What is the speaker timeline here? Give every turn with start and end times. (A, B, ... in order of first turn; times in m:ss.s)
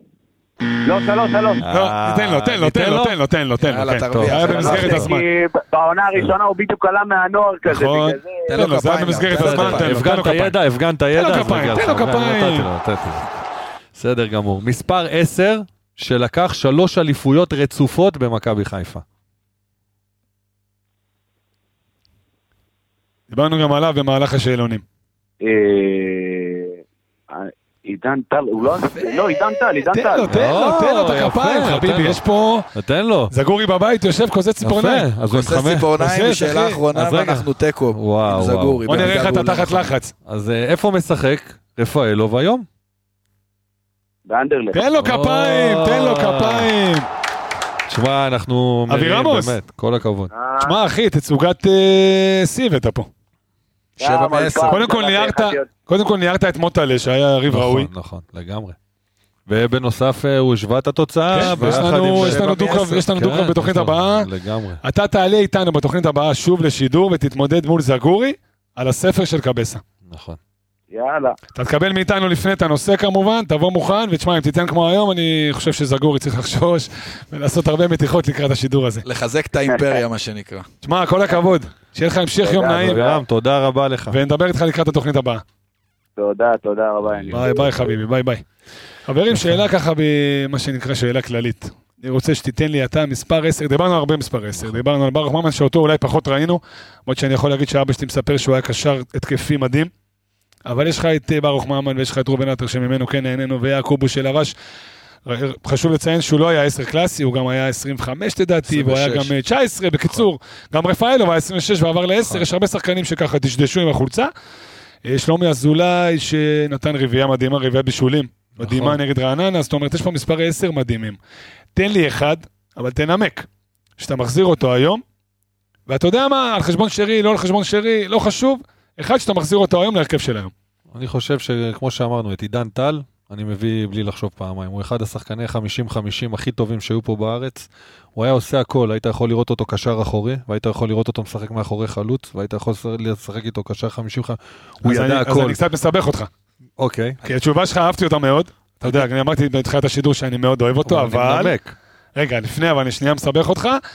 0:00.8-0:01.6 A
0:01.6-0:03.2 B
0:01.7-0:05.2 C
0:03.6-0:05.1 D
0:04.1-0:05.0 B
0:04.4-0:08.6 A
0:07.6-0:10.6 C
0:08.5-0:10.0 D
0:09.3-0:13.3 B
0:11.1-0:12.7 C
0:13.9-0:19.0 B
0:23.3-0:24.8 C
0:25.4-0:30.4 A
0:29.0-0:32.7 C
0:30.3-0:32.2 B
0:32.7-0:33.3 B
0:33.3-0:35.1 C
0:34.6-0:35.9 B
0:35.3-0:39.9 D
0:36.0-0:36.8 C
0:36.9-0:39.2 B
0:38.9-0:40.1 C
0:40.2-0:42.6 B
0:44.2-0:44.8 A
0:44.7-0:47.1 C
0:45.0-0:46.7 B
0:47.9-0:50.3 B
0:48.9-0:49.6 C
0:50.3-0:50.7 A
0:50.6-0:53.1 C
0:54.0-0:55.7 A
0:54.0-0:54.8 D
0:54.6-0:57.9 C
0:57.5-0:58.8 B
0:59.5-1:04.8 B
1:01.3-1:04.3 C
1:01.4-1:03.0 D
1:04.8-1:09.8 C
1:10.1-1:10.4 B
1:10.9-1:11.4 A
1:11.6-1:19.0 C
1:19.0-1:20.7 D
1:19.7-1:20.0 A
1:20.8-1:23.0 C
1:22.4-1:23.2 A
1:22.8-1:24.2 B
1:24.1-1:25.4 C
1:26.2-1:27.8 A
1:27.1-1:27.5 B
1:27.3-1:28.4 C
1:29.1-1:39.9 C
1:40.6-1:44.5 C
1:45.2-1:54.3 C
1:48.7-1:49.3 D
1:55.0-2:01.2 C
1:58.6-1:59.0 B
2:01.7-2:03.5 C
2:04.0-2:05.0 C
2:05.9-2:10.5 C
2:10.9-2:25.6 B
2:24.8-2:26.3 C
2:26.8-2:27.2 B
2:27.2-2:31.6 C
2:30.8-2:31.7 B
2:32.2-2:33.8 C